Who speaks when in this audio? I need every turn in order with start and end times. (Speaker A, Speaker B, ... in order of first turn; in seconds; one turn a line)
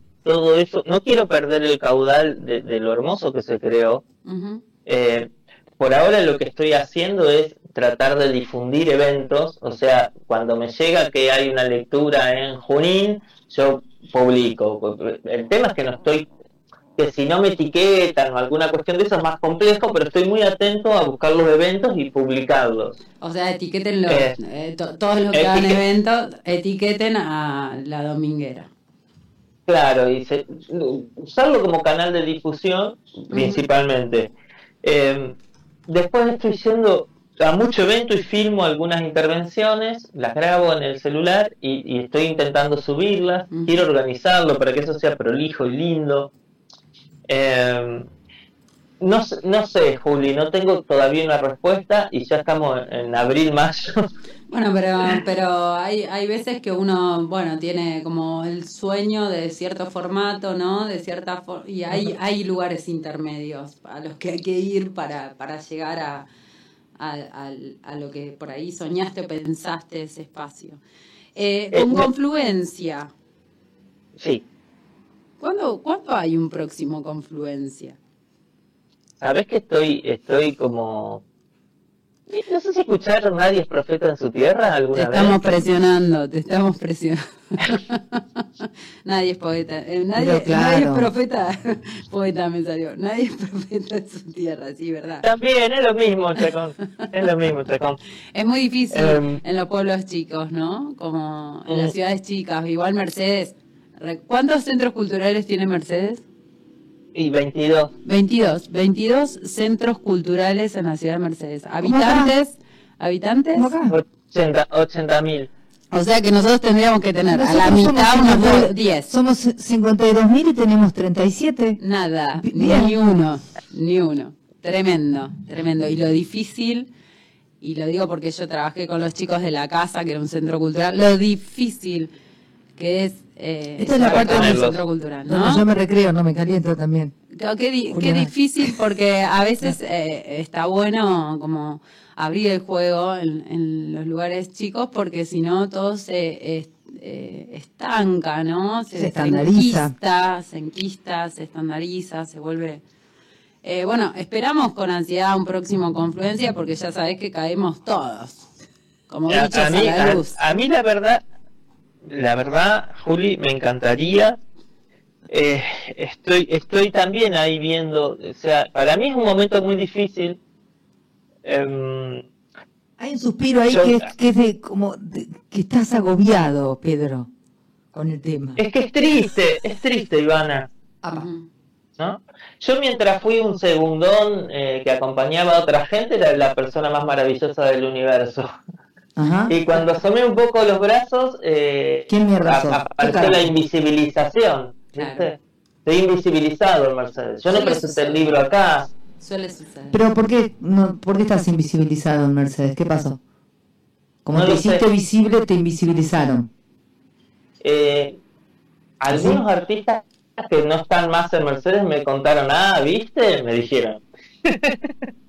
Speaker A: 0.2-4.0
Speaker B: 4.2-4.6
Speaker A: 4.8-16.2
Speaker A: 17.0-23.0
Speaker B: 23.2-28.7
Speaker A: 24.1-24.3
Speaker A: 25.3-25.8
Speaker A: 29.7-34.3
Speaker B: 33.3-33.6
Speaker A: 34.8-35.4
Speaker A: 35.9-46.3
Speaker B: 43.5-43.8
Speaker A: 47.3-48.1
Speaker A: 49.0-54.0
Speaker B: 54.5-66.3
Speaker B: 67.0-70.8
Speaker B: 71.3-73.1
Speaker A: 71.7-72.1
Speaker A: 74.2-74.4
Speaker B: 75.4-78.0
Speaker A: 79.2-81.2
Speaker A: 82.3-85.4
Speaker B: 84.9-95.2
Speaker C: 90.2-91.1
Speaker A: 95.2-98.0
Speaker B: 98.3-106.2
Speaker A: 98.9-99.4
Speaker A: 107.1-107.9
Speaker B: 108.0-113.7
Speaker C: 111.8-112.3
Speaker C: 113.5-114.0
Speaker A: 113.9-115.5
Speaker B: 115.9-119.1
Speaker C: 117.2-121.8
Speaker B: 121.8-126.9
Speaker C: 122.3-123.0
Speaker B: 127.6-132.1
Speaker B: 132.8-135.6
Speaker C: 133.8-134.7
Speaker A: 134.1-134.8
Speaker C: 135.3-137.1
Speaker B: 137.3-152.8
Speaker C: 137.9-138.3
Speaker C: 148.9-149.9
Speaker B: 153.6-158.5
Speaker B: 159.1-160.4
Speaker A: 159.3-161.2
Speaker A: 162.0-164.4
Speaker A: 165.3-170.4
Speaker A: 171.4-172.2
Speaker C: 173.0-177.3
Speaker A: 173.7-174.1
Speaker C: 177.9-178.6
Speaker A: 178.6-180.7
Speaker B: 181.1-181.5
Speaker A: 182.0-188.5
Speaker C: 189.2-189.5
Speaker A: 189.5-198.9
Speaker C: 192.1-193.5
Speaker B: 194.9-195.3
Speaker B: 197.5-198.3
Speaker B: 199.2-200.0
Speaker C: 199.9-203.2
Speaker C: 204.2-206.5
Speaker A: 204.3-204.8
Speaker A: 207.6-208.2
Speaker A: 209.0-214.9
Speaker C: 209.1-209.4